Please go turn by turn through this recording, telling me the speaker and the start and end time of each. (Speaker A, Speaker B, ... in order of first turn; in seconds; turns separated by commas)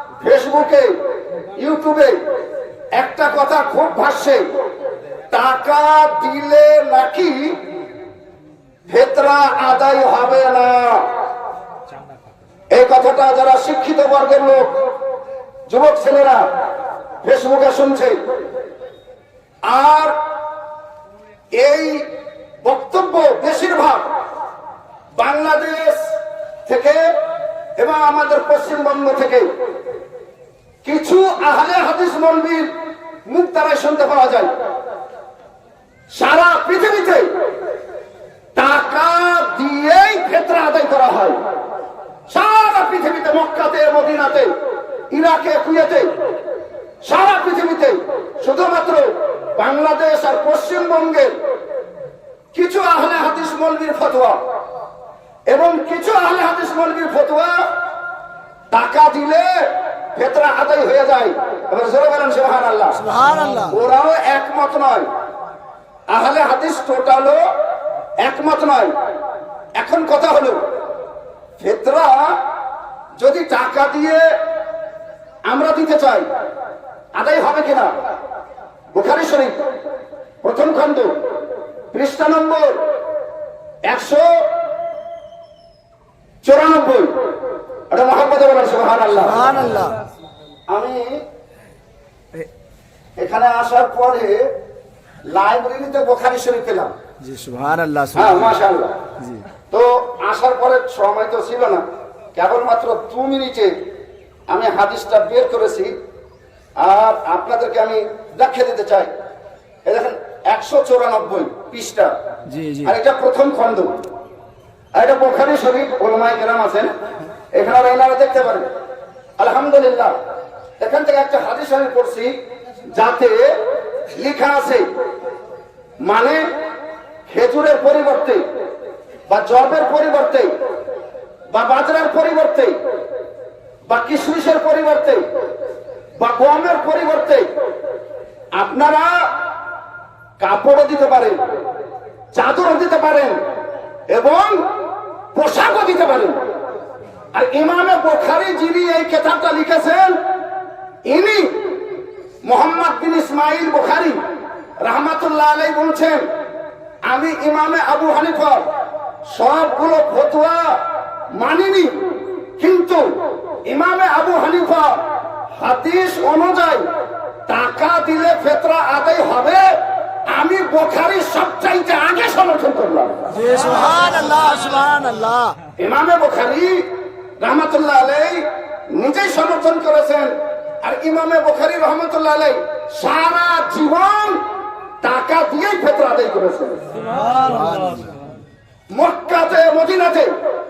Speaker A: 0.2-0.9, Speaker A: 1.6-2.2, Speaker A: 2.9-4.5, Speaker A: 5.3-7.6, Speaker A: 8.9-11.1, Speaker A: 12.7-14.8, Speaker A: 15.7-16.5, Speaker A: 17.2-18.2, Speaker A: 19.6-20.1, Speaker A: 21.5-22.1, Speaker A: 22.6-24.1, Speaker A: 25.1-26.1, Speaker A: 26.6-27.0, Speaker A: 27.8-29.5, Speaker A: 30.8-32.7, Speaker A: 33.2-34.5, Speaker A: 36.1-37.3, Speaker A: 38.5-41.4, Speaker A: 42.3-44.5, Speaker A: 45.1-46.2, Speaker A: 47.0-51.3, Speaker A: 52.5-54.4, Speaker A: 55.5-57.7, Speaker A: 58.7-63.0, Speaker B: 63.0-63.7, Speaker A: 63.7-65.1, Speaker A: 66.1-67.4, Speaker A: 68.2-68.9, Speaker A: 69.8-70.6, Speaker A: 71.6-72.4, Speaker A: 73.2-74.2, Speaker A: 75.5-76.3, Speaker A: 77.1-77.9, Speaker A: 78.9-79.6, Speaker A: 80.4-81.2, Speaker A: 81.9-82.8, Speaker A: 83.8-84.4, Speaker A: 86.4-87.1, Speaker A: 87.9-89.6, Speaker B: 89.2-90.0, Speaker A: 90.7-91.2, Speaker A: 93.2-94.5, Speaker A: 95.3-96.9, Speaker B: 97.2-98.5, Speaker A: 98.1-99.0, Speaker A: 99.7-103.8, Speaker A: 104.5-105.9, Speaker A: 106.8-109.1, Speaker A: 109.8-112.1, Speaker B: 112.5-112.9, Speaker A: 112.8-114.0, Speaker A: 114.9-116.9, Speaker A: 117.5-118.7, Speaker A: 119.4-120.1, Speaker A: 120.8-122.3, Speaker A: 122.9-123.5, Speaker A: 124.1-124.9, Speaker A: 126.0-126.4, Speaker A: 127.3-128.4, Speaker A: 129.3-130.5, Speaker A: 131.5-132.8, Speaker A: 133.9-135.2, Speaker A: 136.2-137.5, Speaker A: 138.5-139.3, Speaker A: 140.4-141.4, Speaker A: 142.3-143.4, Speaker A: 144.1-144.6, Speaker A: 145.3-146.4, Speaker A: 147.3-150.2, Speaker A: 151.0-151.6, Speaker A: 152.4-154.2, Speaker A: 154.8-156.2, Speaker A: 157.1-158.6, Speaker A: 159.2-160.8, Speaker A: 161.3-162.0, Speaker A: 162.6-163.1, Speaker A: 163.7-165.0, Speaker A: 165.6-166.8, Speaker A: 167.5-169.7, Speaker A: 170.3-173.3, Speaker B: 173.3-175.6, Speaker A: 175.8-176.9, Speaker A: 177.4-184.4, Speaker A: 185.0-186.8, Speaker B: 187.2-188.1, Speaker A: 188.9-190.3